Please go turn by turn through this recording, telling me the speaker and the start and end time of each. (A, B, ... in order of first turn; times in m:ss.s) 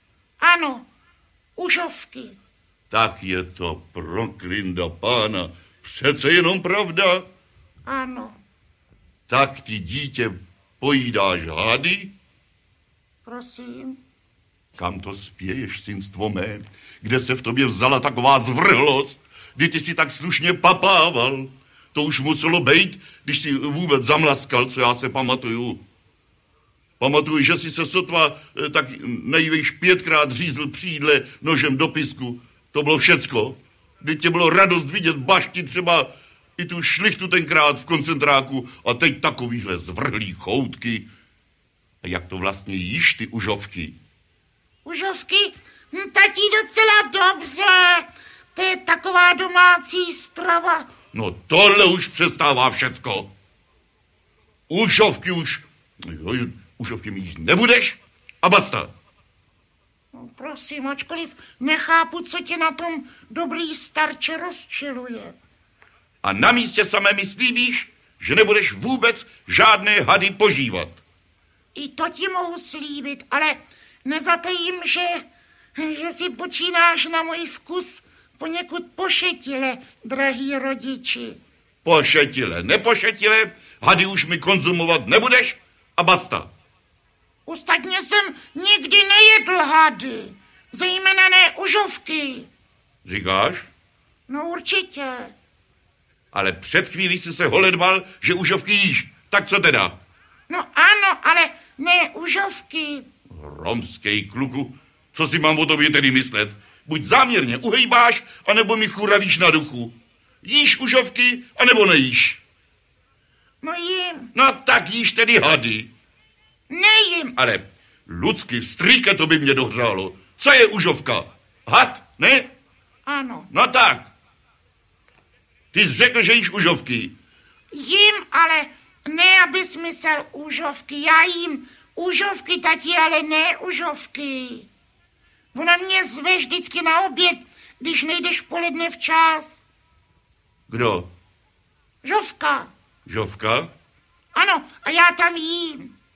0:00.4-0:00.9 A
0:01.6-0:02.4 A
0:02.9-0:07.2 B
0:07.8-0:08.4 A
0:09.3-0:12.1 B
0:13.2-0:14.0 A
0:14.8-0:25.8 B
0:27.0-0:41.1 B
0:42.0-0:44.0 B
0:44.8-0:50.9 A
0:51.1-0:53.3 B
0:54.7-0:58.9 B
1:00.1-1:05.3 A
1:06.2-1:11.0 B
1:11.7-1:15.2 A
1:15.8-1:21.4 A
1:21.8-1:26.5 B
1:27.4-1:32.5 A
1:33.0-1:33.7 B
1:34.3-1:35.3 A
1:36.3-1:40.0 B
1:40.5-1:43.1 A
1:43.3-1:52.4 B
1:53.6-1:54.3 A
1:54.3-1:55.9 B
1:56.7-1:57.4 A
1:57.4-2:02.5 B
2:03.0-2:03.5 A
2:03.5-2:04.1 B
2:05.7-2:07.1 B
2:07.7-2:14.7 A
2:15.5-2:19.6 A
2:20.7-2:21.0 B
2:22.0-2:22.7 A
2:23.0-2:23.7 B
2:24.3-2:25.9 A